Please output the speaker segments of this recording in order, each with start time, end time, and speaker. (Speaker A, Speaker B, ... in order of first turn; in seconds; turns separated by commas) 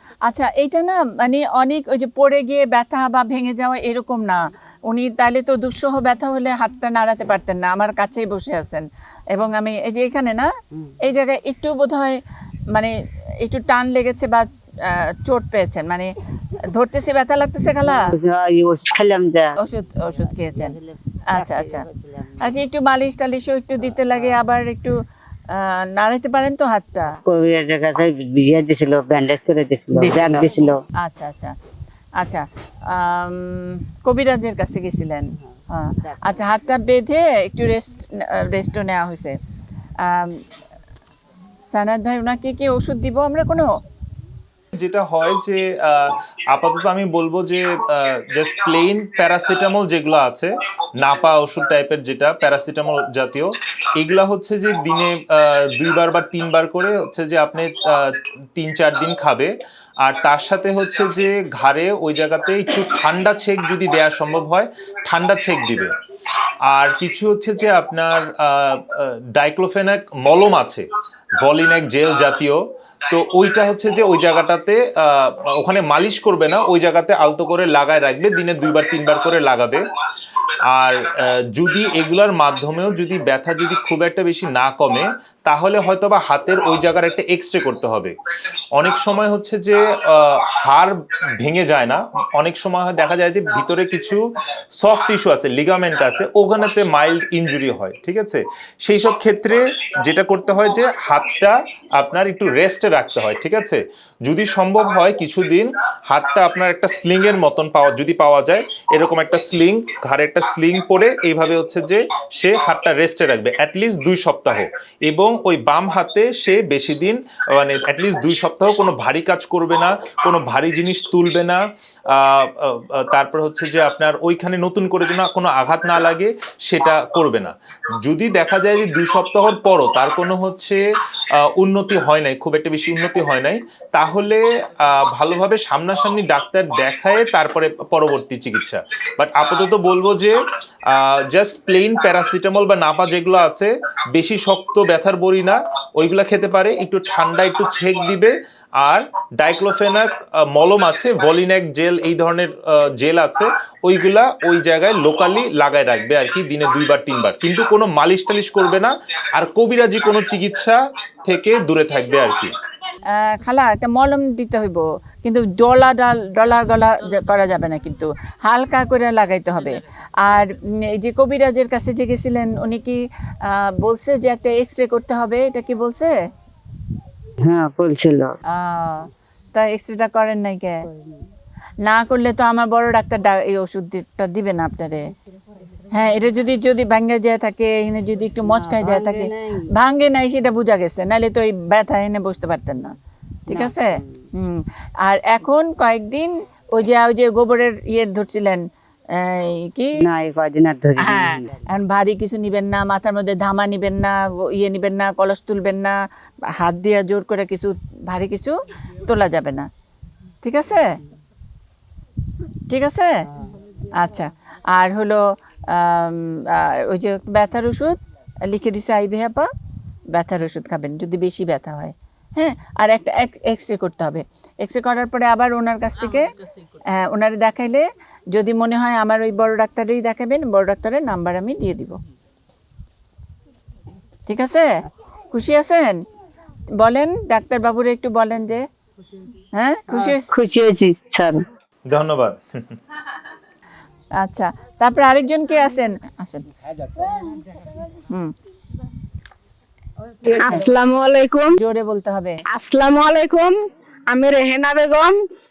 Speaker A: 0.3-12.2, Speaker A: 12.7-16.1, Speaker A: 16.7-18.1, Speaker B: 17.9-19.5, Speaker A: 19.6-20.8, Speaker A: 21.3-21.9, Speaker B: 21.6-22.0, Speaker A: 22.4-24.9, Speaker A: 25.5-27.1, Speaker B: 27.2-30.8, Speaker A: 31.0-31.6, Speaker A: 32.2-39.4, Speaker A: 40.0-40.4, Speaker A: 41.7-43.7, Speaker C: 44.7-65.9, Speaker C: 66.7-70.8, Speaker C: 71.4-79.8, Speaker C: 80.7-88.1, Speaker C: 88.7-130.8, Speaker C: 131.3-140.4, Speaker C: 140.9-162.5, Speaker A: 163.1-176.1, Speaker B: 177.4-178.3, Speaker A: 178.5-180.9, Speaker A: 181.8-185.1, Speaker A: 185.9-192.9, Speaker B: 188.5-189.6, Speaker A: 193.5-200.0, Speaker B: 193.5-194.1, Speaker B: 200.0-201.6, Speaker A: 201.0-209.7, Speaker A: 210.4-211.0, Speaker A: 212.7-213.2, Speaker A: 213.9-219.5, Speaker A: 220.1-226.3, Speaker A: 226.9-232.0, Speaker A: 234.3-234.7, Speaker A: 235.3-236.0, Speaker A: 236.8-238.7, Speaker A: 239.5-240.3, Speaker B: 240.0-241.4, Speaker C: 241.9-242.8, Speaker A: 244.2-246.4, Speaker D: 250.3-251.5, Speaker A: 251.6-252.4, Speaker D: 252.5-253.6, Speaker D: 254.1-255.2